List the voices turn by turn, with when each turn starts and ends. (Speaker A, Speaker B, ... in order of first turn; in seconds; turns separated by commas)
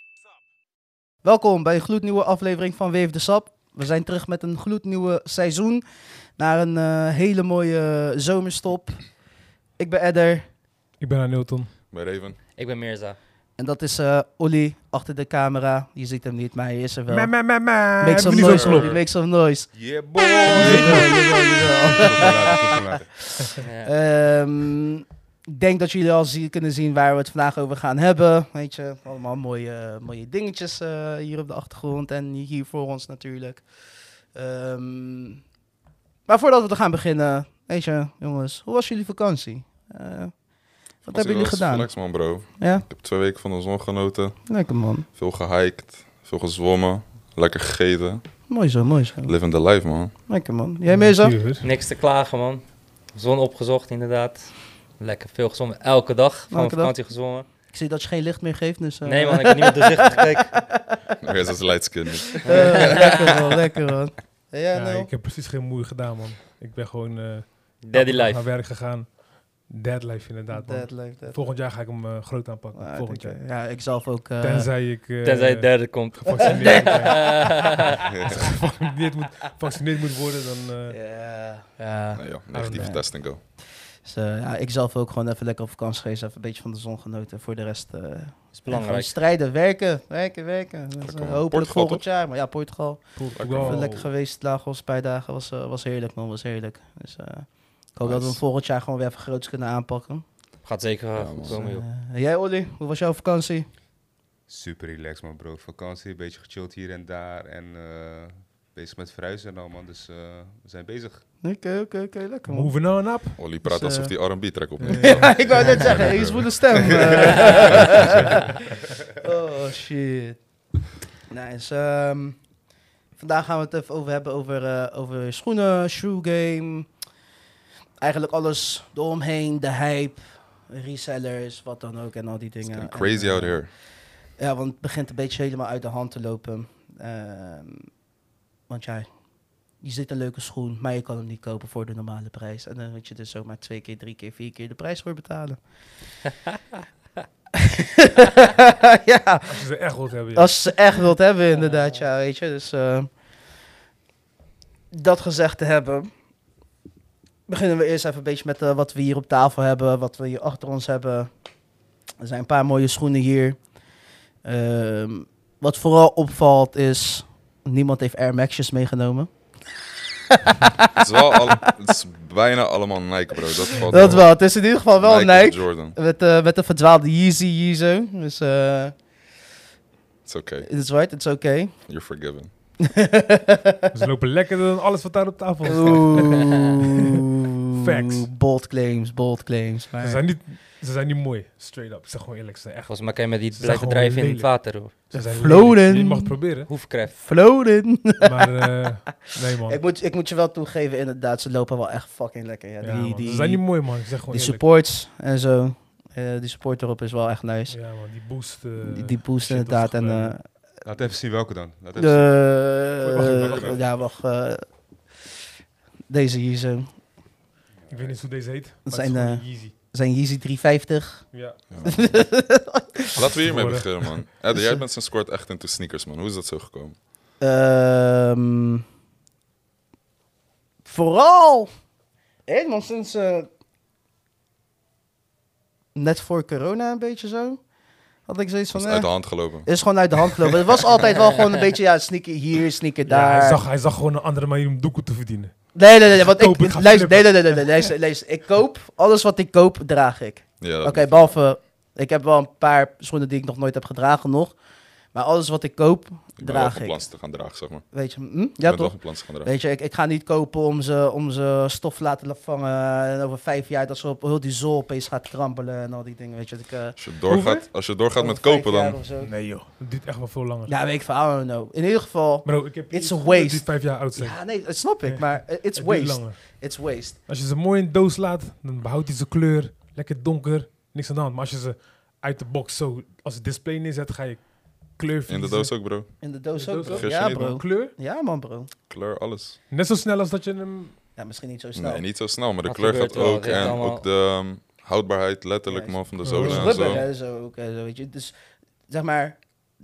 Speaker A: 1.2-5.8, Speaker A: 6.4-9.2, Speaker A: 9.8-10.5, Speaker B: 11.0-11.7, Speaker C: 11.9-12.4, Speaker D: 12.6-13.2, Speaker A: 13.6-19.7, Speaker B: 17.1-19.0, Speaker C: 18.3-19.0, Speaker E: 19.7-23.2, Speaker A: 20.4-33.7, Speaker B: 20.4-21.2, Speaker D: 23.6-23.9, Speaker A: 34.3-35.4, Speaker A: 36.3-40.4, Speaker A: 41.0-42.9, Speaker C: 41.0-48.3, Speaker A: 44.5-45.1, Speaker A: 48.5-49.4, Speaker C: 49.2-50.1, Speaker A: 50.3-51.4, Speaker B: 50.9-51.7, Speaker D: 51.6-57.5, Speaker A: 56.5-57.0, Speaker A: 57.7-61.1, Speaker D: 59.0-60.6, Speaker C: 61.2-63.2, Speaker A: 62.2-65.1, Speaker D: 62.5-63.1, Speaker B: 64.7-73.5, Speaker D: 67.8-68.5, Speaker A: 70.5-71.6, Speaker A: 72.7-74.7, Speaker B: 74.4-81.0, Speaker D: 75.2-77.8, Speaker A: 76.4-77.9, Speaker A: 80.9-100.2, Speaker C: 82.2-83.4, Speaker B: 82.5-83.0, Speaker D: 88.5-89.2, Speaker C: 91.0-92.0, Speaker B: 93.2-94.1, Speaker C: 93.3-93.8, Speaker C: 98.0-98.4, Speaker D: 100.6-101.8, Speaker C: 101.1-101.6, Speaker A: 101.5-103.7, Speaker E: 104.5-111.2, Speaker A: 111.4-113.0, Speaker B: 112.5-113.4, Speaker C: 113.4-116.2, Speaker A: 113.6-114.2, Speaker B: 114.8-116.0, Speaker A: 114.9-118.7, Speaker E: 115.5-117.9, Speaker C: 116.7-118.2, Speaker A: 119.2-120.4, Speaker A: 121.3-122.4, Speaker A: 123.2-126.9, Speaker A: 128.0-133.7, Speaker C: 132.6-133.7, Speaker A: 134.3-137.9, Speaker A: 138.7-139.1, Speaker A: 139.8-145.6, Speaker A: 147.6-149.7, Speaker B: 149.4-150.8, Speaker A: 150.3-153.1, Speaker D: 151.6-151.9, Speaker A: 154.9-156.1, Speaker A: 157.5-161.3, Speaker A: 162.2-163.6, Speaker A: 164.4-169.3, Speaker A: 170.3-171.7, Speaker C: 170.9-176.0, Speaker A: 173.8-179.0, Speaker B: 173.9-174.2, Speaker C: 180.2-180.7, Speaker A: 180.6-181.9, Speaker C: 181.9-182.5, Speaker A: 182.8-183.9, Speaker B: 183.9-186.5, Speaker A: 185.6-187.2, Speaker B: 187.1-188.3, Speaker A: 188.0-190.3, Speaker B: 190.0-196.7, Speaker D: 192.9-194.9, Speaker A: 195.1-198.9, Speaker D: 196.7-197.2, Speaker B: 198.2-199.8, Speaker A: 199.6-207.8, Speaker B: 202.8-204.7, Speaker B: 207.7-210.5, Speaker A: 208.8-210.7, Speaker E: 210.8-213.8, Speaker A: 211.9-214.7, Speaker B: 212.9-213.8, Speaker A: 216.1-217.0, Speaker E: 217.8-218.2, Speaker B: 217.9-219.7, Speaker A: 218.8-223.5, Speaker B: 221.3-221.6, Speaker C: 221.7-222.4, Speaker C: 223.2-227.0, Speaker B: 223.3-224.2, Speaker A: 224.5-224.8, Speaker A: 227.4-228.8, Speaker A: 230.8-231.7, Speaker A: 232.4-233.5, Speaker A: 235.9-237.7, Speaker A: 238.2-243.6, Speaker C: 238.7-240.5, Speaker B: 243.1-247.9, Speaker A: 245.7-254.6, Speaker C: 250.6-251.4, Speaker A: 255.1-257.1, Speaker C: 256.4-257.9, Speaker A: 257.9-267.0, Speaker C: 258.6-259.5, Speaker C: 267.0-269.0, Speaker B: 267.3-267.7, Speaker A: 268.1-269.3, Speaker B: 269.2-270.7, Speaker A: 270.7-277.2, Speaker B: 272.4-276.7, Speaker B: 277.3-285.8, Speaker C: 285.3-286.2, Speaker A: 286.2-288.7, Speaker B: 286.5-287.9, Speaker C: 286.9-287.5, Speaker C: 288.9-289.6, Speaker B: 289.7-291.0, Speaker A: 291.1-292.1, Speaker C: 291.7-297.1, Speaker D: 292.6-294.0, Speaker A: 295.7-298.3, Speaker B: 296.2-297.0, Speaker A: 298.9-299.4